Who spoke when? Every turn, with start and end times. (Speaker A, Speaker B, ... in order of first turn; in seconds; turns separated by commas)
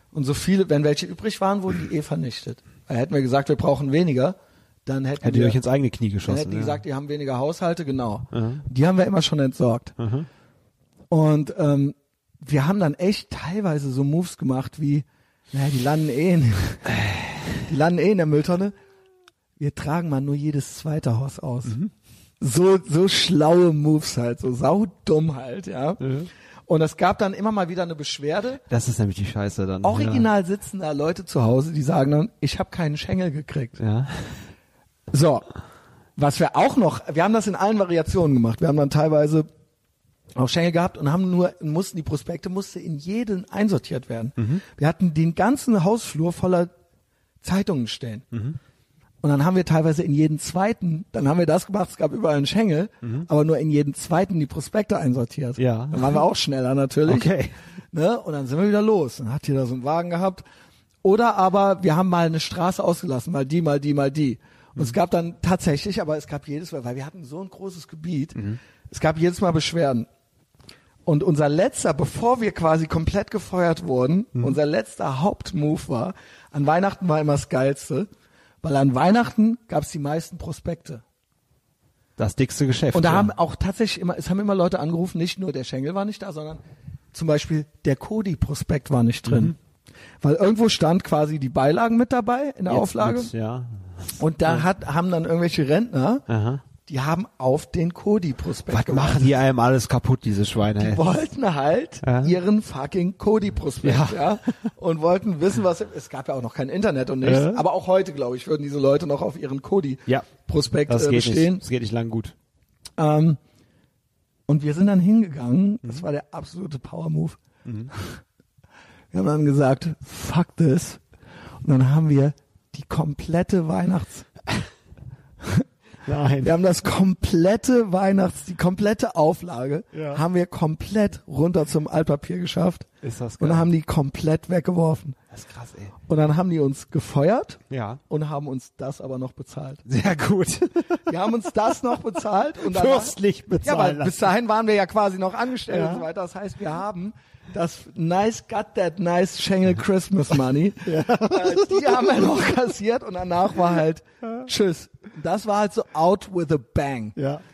Speaker A: 0.1-5.6, Speaker B: 5.2-6.8, Speaker A: 6.3-10.0, Speaker B: 8.3-8.6, Speaker B: 10.0-10.3, Speaker A: 11.1-16.9, Speaker B: 16.9-17.5, Speaker A: 17.6-18.8, Speaker A: 19.6-21.8, Speaker B: 21.7-21.9, Speaker A: 22.4-26.0, Speaker B: 26.0-26.3, Speaker A: 26.7-28.6, Speaker B: 28.7-30.3, Speaker A: 29.8-33.8, Speaker B: 33.8-34.3, Speaker A: 35.1-35.5, Speaker A: 36.2-39.5, Speaker A: 40.4-46.7, Speaker A: 47.4-48.2, Speaker B: 48.3-48.6, Speaker A: 49.2-57.3, Speaker B: 53.0-53.3, Speaker B: 55.6-56.2, Speaker B: 57.1-57.5, Speaker A: 57.9-60.4, Speaker A: 61.0-70.1, Speaker A: 71.1-78.1, Speaker A: 78.6-81.0, Speaker B: 82.2-83.3, Speaker A: 82.9-86.6, Speaker A: 87.1-89.6, Speaker B: 89.3-89.5, Speaker A: 90.2-93.3, Speaker B: 92.7-94.7, Speaker A: 94.2-96.3, Speaker B: 96.3-96.6, Speaker A: 96.8-99.3, Speaker B: 98.7-101.0, Speaker A: 100.8-111.6, Speaker B: 102.0-102.3, Speaker B: 103.8-104.4, Speaker B: 107.2-107.6, Speaker B: 110.9-112.3, Speaker A: 113.0-113.4, Speaker A: 114.5-117.4, Speaker B: 117.7-117.9, Speaker A: 119.1-121.0, Speaker A: 121.6-124.3, Speaker B: 126.0-126.5, Speaker A: 126.4-132.9, Speaker B: 129.9-130.2, Speaker B: 133.0-133.7, Speaker A: 133.4-135.2, Speaker B: 135.3-135.9, Speaker A: 136.1-139.8, Speaker B: 137.7-138.0, Speaker B: 139.9-141.2, Speaker A: 141.1-157.2, Speaker B: 142.6-144.3, Speaker B: 145.7-146.1, Speaker B: 150.8-152.3, Speaker B: 157.2-157.4